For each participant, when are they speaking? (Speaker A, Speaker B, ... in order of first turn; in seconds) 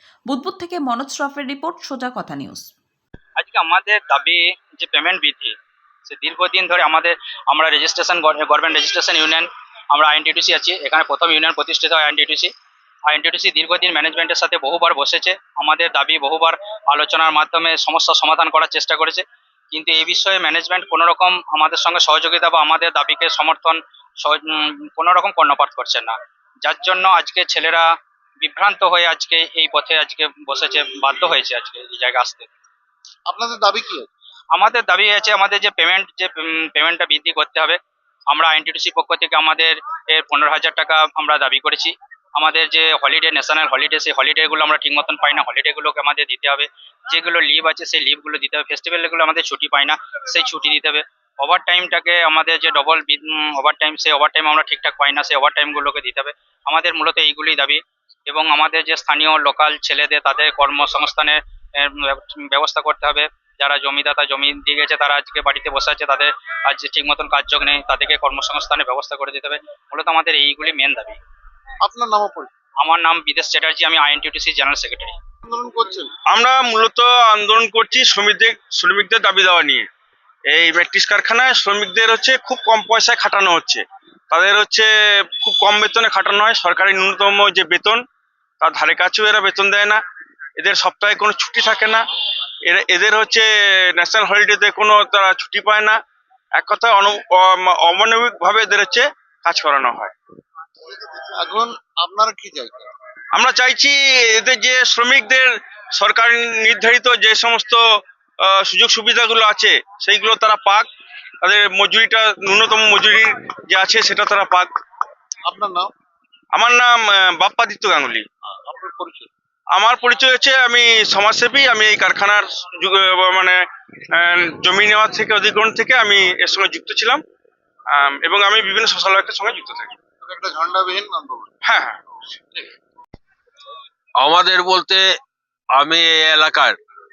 Speaker A: 0.3-2.6
Speaker B: 3.4-5.5, 6.1-12.5, 13.1-27.9, 28.4-32.5, 34.5-37.8, 38.3-71.2, 72.8-75.2
Speaker C: 33.3-34.1, 71.8-72.5, 75.5-76.1, 101.1-102.9, 115.5-115.9, 118.6-119.3, 130.2-131.5
Speaker D: 76.3-79.9, 80.5-88.0, 88.6-90.0, 90.6-92.0, 92.7-96.0, 96.5-100.1, 103.3-107.8, 108.4-110.9, 111.4-114.7, 116.5-118.3, 119.7-127.2, 127.9-130.0, 131.6-132.0
Speaker E: 134.2-135.1, 135.8-136.8